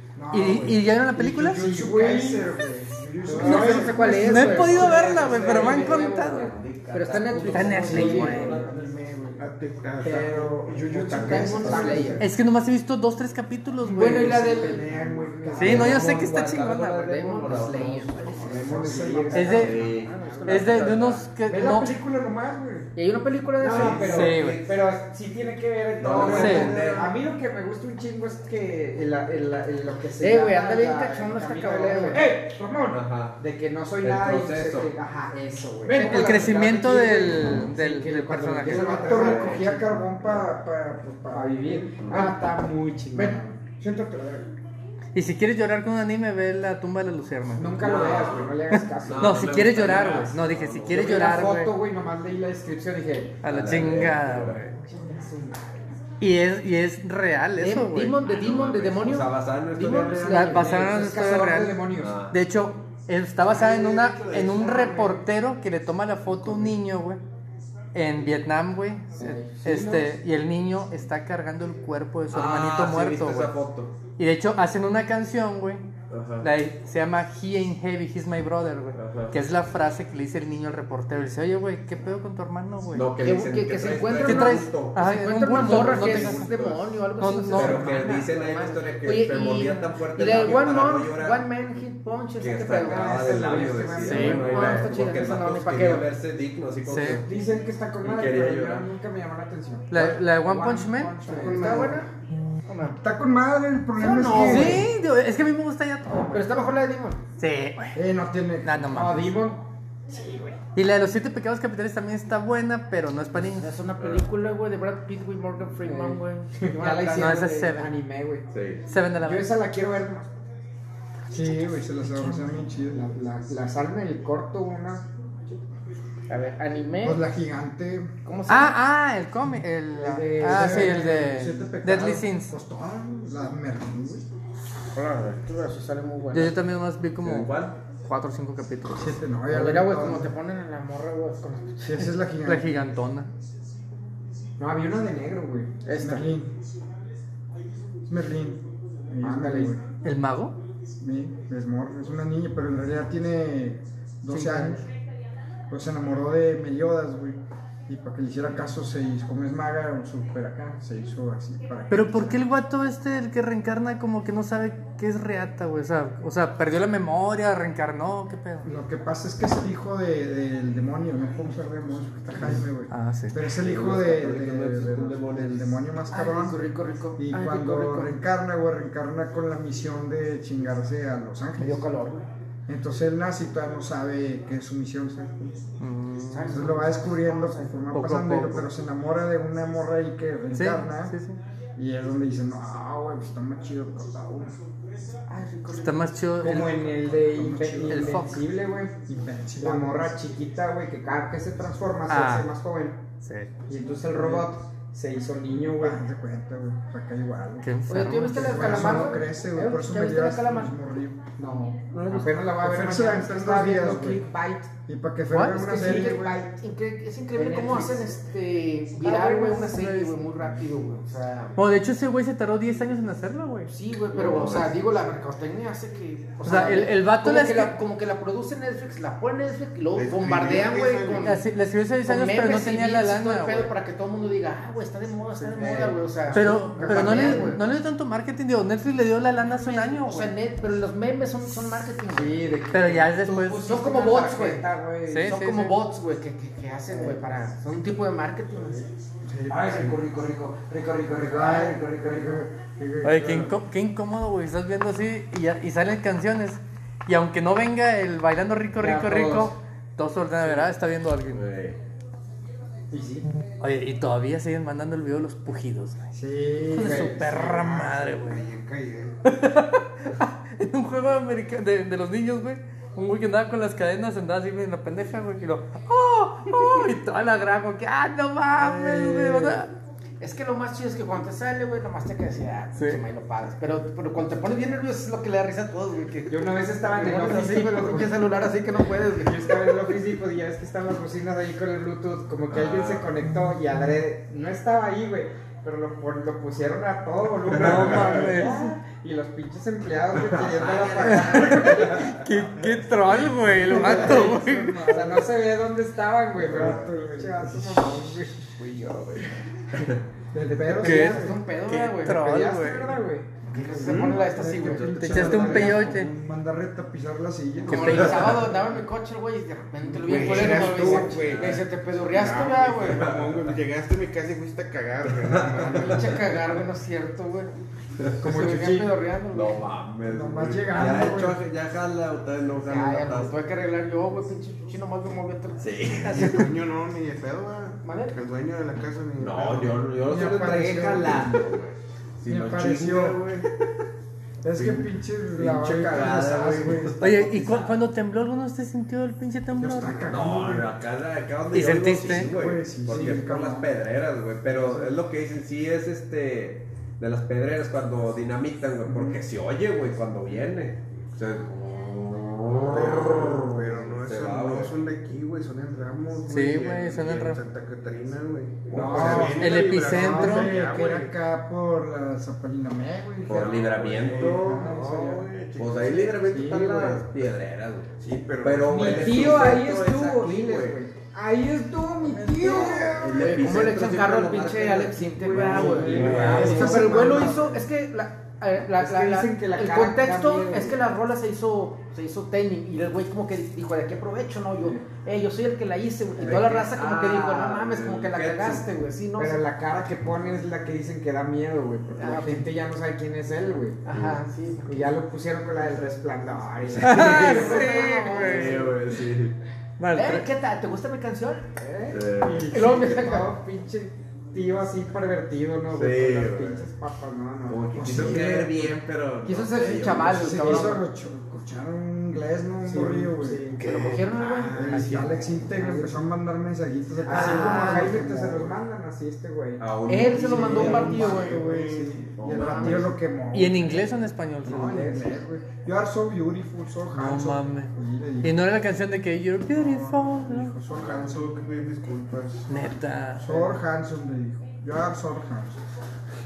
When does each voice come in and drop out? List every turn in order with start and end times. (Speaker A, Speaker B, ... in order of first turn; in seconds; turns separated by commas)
Speaker A: 0.1-4.8, Speaker B: 0.3-2.2, Speaker C: 1.9-2.4, Speaker C: 3.3-6.1, Speaker D: 3.4-8.6, Speaker B: 3.4-6.6, Speaker E: 4.7-8.7, Speaker B: 7.5-8.6, Speaker C: 7.6-8.5, Speaker A: 7.8-12.2, Speaker F: 9.4-12.2, Speaker D: 11.2-12.3, Speaker C: 11.6-12.2, Speaker B: 12.2-14.6, Speaker D: 13.9-14.9, Speaker C: 13.9-16.6, Speaker A: 14.1-15.9, Speaker D: 15.5-18.8, Speaker B: 15.6-17.2, Speaker E: 15.6-20.1, Speaker C: 18.2-22.9, Speaker A: 18.4-19.6, Speaker D: 19.3-21.2, Speaker B: 19.3-19.8, Speaker B: 20.4-22.0, Speaker D: 22.9-24.3, Speaker C: 23.6-39.7, Speaker E: 23.7-24.8, Speaker B: 24.0-24.6, Speaker E: 26.0-27.1, Speaker A: 26.1-27.0, Speaker B: 26.2-26.8, Speaker D: 30.2-32.4, Speaker E: 32.9-33.4, Speaker E: 34.0-34.9, Speaker D: 35.9-36.7, Speaker B: 35.9-39.6, Speaker D: 38.0-38.9, Speaker A: 38.7-42.0, Speaker E: 39.0-40.4, Speaker C: 41.3-43.6, Speaker E: 42.0-42.3, Speaker A: 43.1-44.5, Speaker B: 45.1-47.9, Speaker C: 47.5-50.3, Speaker E: 47.8-51.2, Speaker B: 48.7-51.7, Speaker C: 50.9-53.4, Speaker B: 53.4-54.8, Speaker E: 53.5-54.6, Speaker C: 54.8-56.0, Speaker B: 56.2-58.3, Speaker D: 57.6-61.1, Speaker E: 58.3-60.8, Speaker C: 59.9-62.2, Speaker B: 60.2-67.2, Speaker E: 62.0-62.4, Speaker E: 63.5-64.7, Speaker C: 64.2-65.2, Speaker B: 67.9-73.5, Speaker D: 69.2-69.6, Speaker C: 69.2-70.1, Speaker E: 72.3-74.0, Speaker B: 74.2-75.9, Speaker E: 76.1-76.5, Speaker B: 76.4-83.1, Speaker E: 78.9-79.4, Speaker E: 82.9-86.8, Speaker D: 83.2-96.1, Speaker B: 84.2-86.5, Speaker B: 87.2-88.0, Speaker E: 87.5-91.4, Speaker E: 92.4-97.4, Speaker C: 92.8-94.8, Speaker A: 93.6-94.0, Speaker B: 94.0-94.7, Speaker B: 96.8-97.2, Speaker C: 97.2-101.9, Speaker E: 98.0-98.9, Speaker B: 99.9-101.2, Speaker D: 101.3-102.1, Speaker A: 101.3-102.1, Speaker D: 102.7-103.0, Speaker A: 103.0-104.8, Speaker D: 104.0-104.9, Speaker B: 104.3-106.5, Speaker D: 106.3-107.2, Speaker B: 107.4-108.0, Speaker A: 108.0-108.9, Speaker B: 108.6-109.3, Speaker C: 108.9-110.6, Speaker B: 110.8-113.7, Speaker D: 113.4-117.5, Speaker E: 114.0-114.3, Speaker C: 115.8-118.5, Speaker B: 117.2-117.9, Speaker E: 118.5-118.8, Speaker B: 118.9-119.5, Speaker C: 119.2-120.3, Speaker A: 121.3-123.1, Speaker C: 122.9-125.1, Speaker D: 126.3-127.2, Speaker A: 127.0-128.1, Speaker D: 128.2-128.8, Speaker B: 128.5-132.5, Speaker C: 130.0-131.1, Speaker A: 130.4-134.3, Speaker D: 134.9-136.6, Speaker B: 136.3-139.2, Speaker E: 137.2-137.8, Speaker A: 138.9-140.3, Speaker D: 139.5-142.0, Speaker A: 141.8-142.7, Speaker B: 142.4-143.3, Speaker C: 144.6-145.7, Speaker D: 145.8-146.3, Speaker A: 146.0-146.5, Speaker A: 148.1-149.8, Speaker C: 149.2-149.7, Speaker B: 150.0-150.6, Speaker A: 151.0-154.8, Speaker B: 154.3-154.8, Speaker A: 155.7-162.4, Speaker B: 161.9-168.7, Speaker A: 168.6-176.6, Speaker B: 172.9-173.4, Speaker E: 173.6-175.7, Speaker D: 176.1-178.1, Speaker A: 177.2-181.9, Speaker D: 181.6-182.3, Speaker A: 182.7-185.6, Speaker B: 185.8-186.8, Speaker D: 186.3-187.8, Speaker A: 186.5-191.2, Speaker B: 187.9-188.7, Speaker B: 190.5-191.4, Speaker A: 191.8-194.6, Speaker D: 195.3-196.2, Speaker B: 195.8-196.8, Speaker A: 196.4-198.4, Speaker C: 196.4-199.0, Speaker B: 197.8-198.5, Speaker A: 199.1-200.2, Speaker C: 199.6-203.0, Speaker B: 202.1-202.5, Speaker B: 203.2-203.5, Speaker C: 203.7-206.0, Speaker A: 204.1-204.5, Speaker A: 205.7-207.7, Speaker B: 207.6-209.0, Speaker D: 207.9-210.7, Speaker A: 208.2-211.2, Speaker C: 211.4-214.7, Speaker D: 211.9-212.5, Speaker A: 212.5-214.3, Speaker A: 214.9-216.5, Speaker D: 215.3-221.6, Speaker C: 215.8-216.5, Speaker C: 217.3-218.0, Speaker B: 219.0-220.3, Speaker B: 221.6-223.7, Speaker D: 223.7-231.4, Speaker E: 224.1-224.8, Speaker B: 226.4-227.8, Speaker F: 229.9-231.3, Speaker B: 231.2-233.7, Speaker D: 232.0-237.6, Speaker C: 235.6-237.6, Speaker B: 236.3-240.3, Speaker A: 236.8-237.5, Speaker D: 239.5-242.7, Speaker C: 242.1-245.4, Speaker B: 242.7-243.8, Speaker D: 243.4-248.9, Speaker B: 245.1-245.8, Speaker C: 246.9-247.2, Speaker A: 249.3-249.6, Speaker C: 249.5-252.5, Speaker A: 251.2-253.5, Speaker B: 253.0-261.5, Speaker C: 258.8-259.6, Speaker E: 261.3-261.8, Speaker C: 262.9-263.3, Speaker B: 263.6-266.1, Speaker A: 266.1-267.7, Speaker B: 266.7-268.4, Speaker C: 266.7-267.4, Speaker F: 268.1-269.1, Speaker B: 269.2-279.7, Speaker A: 278.6-279.6, Speaker D: 280.2-289.9, Speaker B: 282.8-283.0, Speaker C: 286.3-288.1, Speaker C: 289.2-302.2, Speaker E: 292.5-293.1, Speaker B: 297.5-298.8, Speaker E: 297.5-298.0, Speaker A: 297.7-298.2, Speaker E: 300.1-302.3, Speaker B: 301.0-304.9, Speaker A: 303.4-305.3, Speaker C: 303.6-309.3, Speaker A: 306.4-308.2, Speaker A: 310.3-311.4, Speaker C: 310.4-311.4, Speaker B: 310.8-313.0, Speaker D: 310.9-312.3, Speaker C: 312.1-313.5, Speaker D: 313.5-315.8, Speaker A: 313.5-318.7, Speaker F: 313.9-314.1, Speaker E: 314.4-315.8, Speaker B: 314.9-316.1, Speaker B: 317.7-318.4, Speaker D: 317.7-323.1, Speaker E: 318.1-318.3, Speaker A: 319.8-321.2, Speaker E: 320.0-321.6, Speaker F: 320.0-326.4, Speaker E: 322.8-323.6, Speaker E: 325.1-326.1, Speaker D: 325.8-327.6, Speaker E: 328.0-328.3, Speaker A: 328.2-329.0, Speaker D: 328.2-329.7, Speaker E: 329.3-333.3, Speaker A: 330.1-331.4, Speaker D: 332.6-335.7, Speaker E: 335.6-336.6, Speaker F: 336.0-339.9, Speaker D: 337.8-338.2, Speaker E: 339.2-343.6, Speaker A: 340.0-341.5, Speaker A: 342.3-343.2, Speaker A: 344.4-347.2, Speaker E: 344.5-347.7, Speaker B: 347.0-350.1, Speaker A: 349.6-350.7, Speaker E: 350.1-364.8, Speaker B: 351.5-352.3, Speaker A: 352.0-353.8, Speaker A: 354.5-354.9, Speaker A: 358.9-359.2, Speaker F: 362.7-371.1, Speaker B: 366.3-367.4, Speaker A: 368.7-375.2, Speaker C: 368.7-369.4, Speaker E: 368.8-369.3, Speaker B: 369.2-370.5, Speaker E: 373.3-374.8, Speaker F: 373.3-376.6, Speaker E: 375.6-380.8, Speaker A: 376.2-376.9, Speaker F: 378.0-379.6, Speaker C: 378.7-383.1, Speaker A: 382.1-383.1, Speaker F: 382.4-383.3, Speaker E: 383.0-386.8, Speaker D: 383.1-399.4, Speaker A: 385.5-387.6, Speaker F: 385.5-386.6, Speaker C: 386.0-387.5, Speaker C: 388.7-390.8, Speaker E: 396.2-398.7, Speaker C: 399.2-403.8, Speaker D: 402.0-402.5, Speaker D: 403.9-405.0, Speaker E: 403.9-404.2, Speaker C: 404.7-408.7, Speaker E: 406.8-409.4, Speaker B: 406.8-408.7, Speaker D: 407.0-408.7, Speaker B: 409.8-410.3, Speaker D: 409.9-411.6, Speaker C: 411.6-418.5, Speaker E: 411.9-412.6, Speaker A: 412.2-413.3, Speaker D: 412.5-413.4, Speaker E: 415.7-416.7, Speaker E: 417.5-420.8, Speaker A: 417.7-418.7, Speaker D: 419.2-420.9, Speaker A: 420.1-423.4, Speaker C: 422.6-423.6, Speaker E: 423.6-424.5, Speaker D: 423.6-425.9, Speaker A: 424.5-428.6, Speaker C: 424.7-426.1, Speaker C: 427.0-429.7, Speaker B: 427.1-428.0, Speaker D: 427.2-428.1, Speaker E: 429.6-431.0, Speaker D: 429.9-431.5, Speaker A: 430.1-433.8, Speaker F: 430.6-432.1, Speaker E: 432.2-432.9, Speaker D: 432.4-432.9, Speaker B: 433.3-434.9, Speaker A: 434.4-438.4, Speaker C: 434.4-435.2, Speaker B: 436.9-440.6, Speaker A: 439.5-441.4, Speaker F: 440.7-442.5, Speaker B: 442.5-443.2, Speaker A: 443.2-445.6